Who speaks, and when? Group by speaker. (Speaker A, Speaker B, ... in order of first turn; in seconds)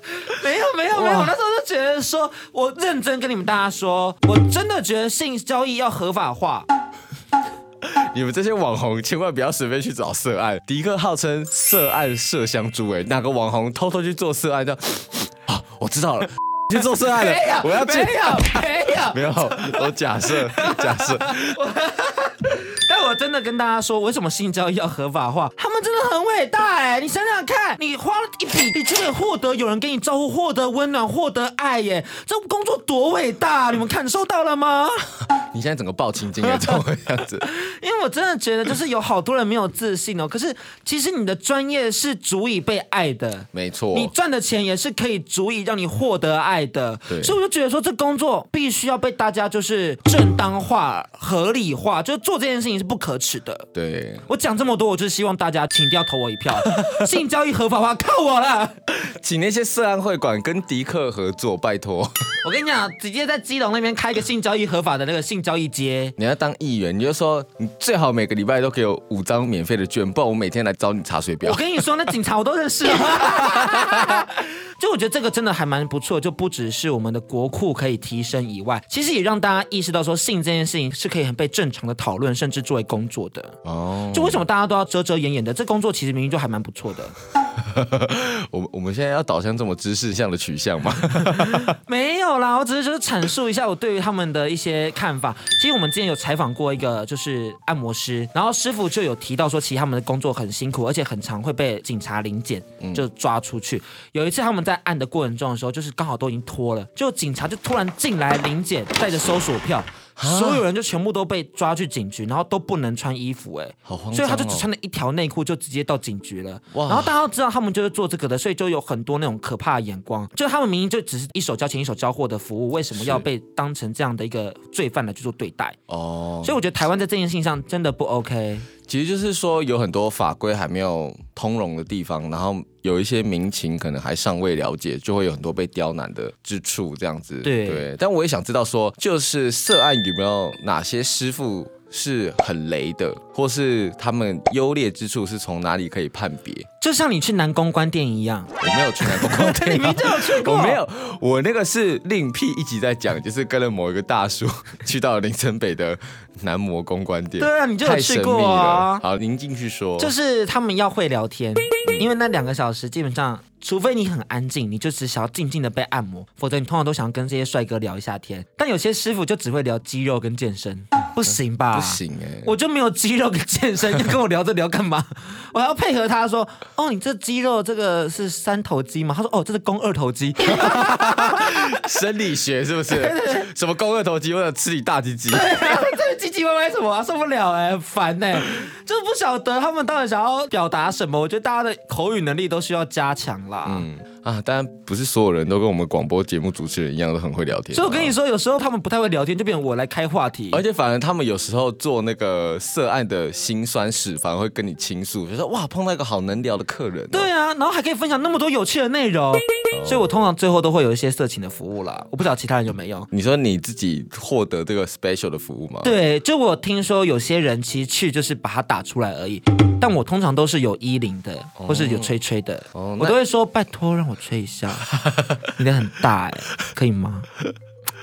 Speaker A: 0.2-6.7, 16.9-35.0, 36.4-36.8, 37.4-53.7, 54.3-58.8, 62.4-66.2, 71.4-83.6, 84.1-87.2, 91.2-125.8, 126.4-128.7, 137.4-137.8, 146.8-150.8, 157.4-159.0, 160.0-181.8, 182.9-183.5, 185.3-193.9, 197.7-200.6, 207.1-213.1, 215.8-224.9, 225.5-227.3
Speaker B: 0.9-1.4, 7.8-21.6, 35.5-37.5, 43.5-44.1, 47.1-47.4, 53.7-54.2, 58.9-62.3, 66.2-71.6, 73.6-74.2, 83.6-84.4, 87.6-91.7, 110.2-110.6, 113.9-114.7, 116.7-117.2, 123.0-123.2, 125.9-126.6, 128.9-146.7, 148.6-160.1, 171.3-172.5, 180.7-185.7, 193.7-198.2, 200.5-207.3, 209.7-210.0, 213.1-215.9, 221.6-222.1, 222.7-223.2, 224.9-225.5